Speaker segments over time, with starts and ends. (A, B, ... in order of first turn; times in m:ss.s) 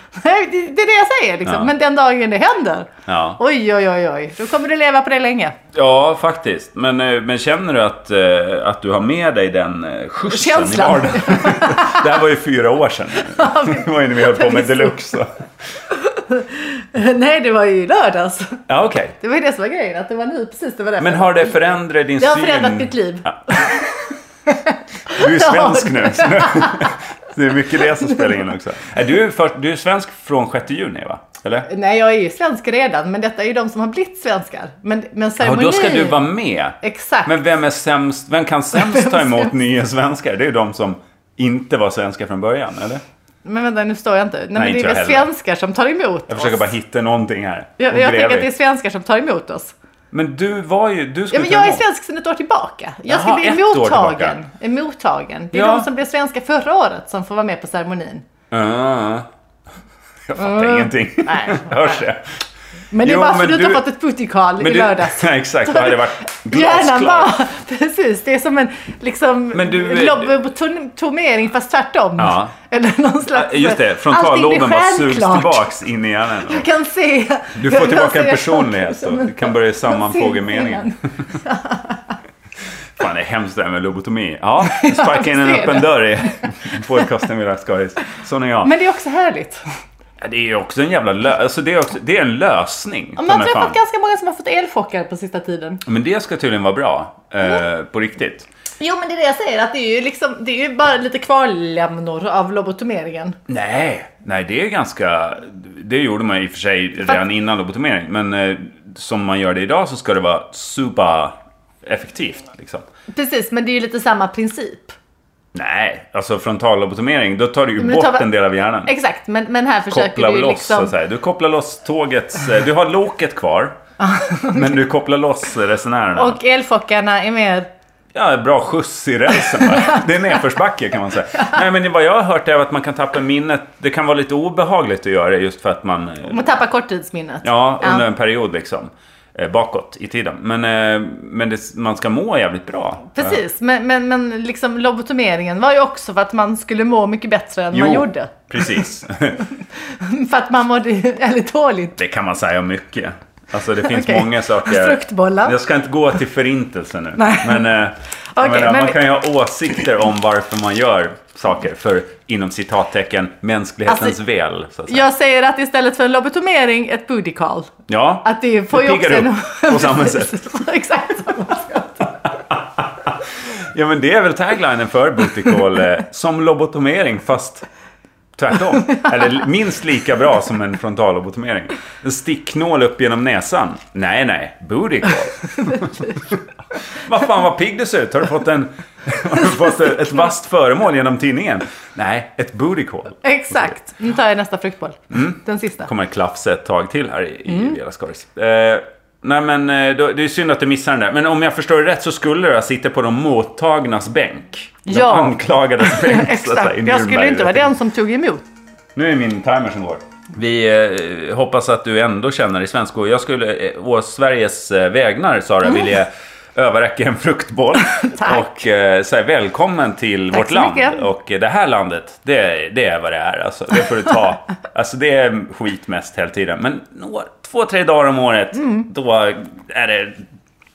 0:00.2-0:05.6 A
0:01.5-0:01.7 B
0:03.1-0:03.4 B
0:05.7-0:15.3 B
0:10.3-0:12.1 A
0:13.3-0:15.1 A
0:15.9-0:18.6 A
0:18.7-0:19.2 B
0:19.2-0:21.6 A
0:21.0-0:23.9 B
0:22.2-0:23.9 A
0:24.5-0:27.0 A
0:25.1-0:31.7 B
0:28.0-0:28.3 A
0:31.7-0:36.2 A
0:35.4-0:43.0 B
0:36.8-0:37.4 A
0:38.7-0:39.5 A
0:43.4-0:46.6 A
0:44.6-0:45.3 B
0:46.3-0:48.5 B
0:47.8-0:49.7 A
0:50.1-0:51.8 B
0:51.3-0:58.2 A
0:53.1-0:54.4 B
0:55.5-0:55.9 B
0:58.5-0:59.3 B
1:00.3-1:02.2 B
1:00.4-1:02.0 A
1:02.9-1:15.7 A
1:03.0-1:03.9 B
1:04.6-1:07.4 B
1:09.5-1:10.4 B
1:12.2-1:12.5 B
1:13.3-1:16.7 B
1:16.4-1:22.1 A
1:17.6-1:21.3 B
1:23.0-1:28.7 B
1:24.7-1:26.8 A
1:28.6-1:29.6 A
1:30.2-1:33.8 B
1:33.2-1:35.8 A
1:35.8-1:38.5 B
1:38.8-1:43.4 A
1:43.5-1:52.8 B
1:53.1-1:55.0 A
1:55.5-1:58.9 B
1:57.8-1:58.3 A
1:58.9-2:00.9 A
1:59.9-2:03.8 B
2:04.0-2:04.7 A
2:04.5-2:06.4 B
2:06.2-2:07.7 A
2:08.1-2:16.5 B
2:09.6-2:10.0 A
2:16.3-2:18.0 A
2:17.4-2:23.4 B
2:23.1-2:28.8 A
2:27.7-2:29.4 B
2:30.0-2:32.0 A
2:32.0-2:45.1 B
2:33.8-2:35.6 A
2:37.2-2:37.7 A
2:38.4-2:39.0 A
2:43.9-2:44.2 A
2:44.9-2:47.7 A
2:47.9-2:50.5 B
2:48.2-2:52.1 A
2:52.5-2:53.1 B
2:53.7-2:57.7 B
2:58.4-3:06.4 B
3:07.0-3:13.7 B
3:13.2-3:15.9 A
3:15.1-3:27.7 B
3:17.5-3:17.8 A
3:24.9-3:28.4 A
3:29.0-3:50.2 B
3:37.8-3:38.6 A
3:40.3-3:41.1 A
3:48.6-3:48.9 A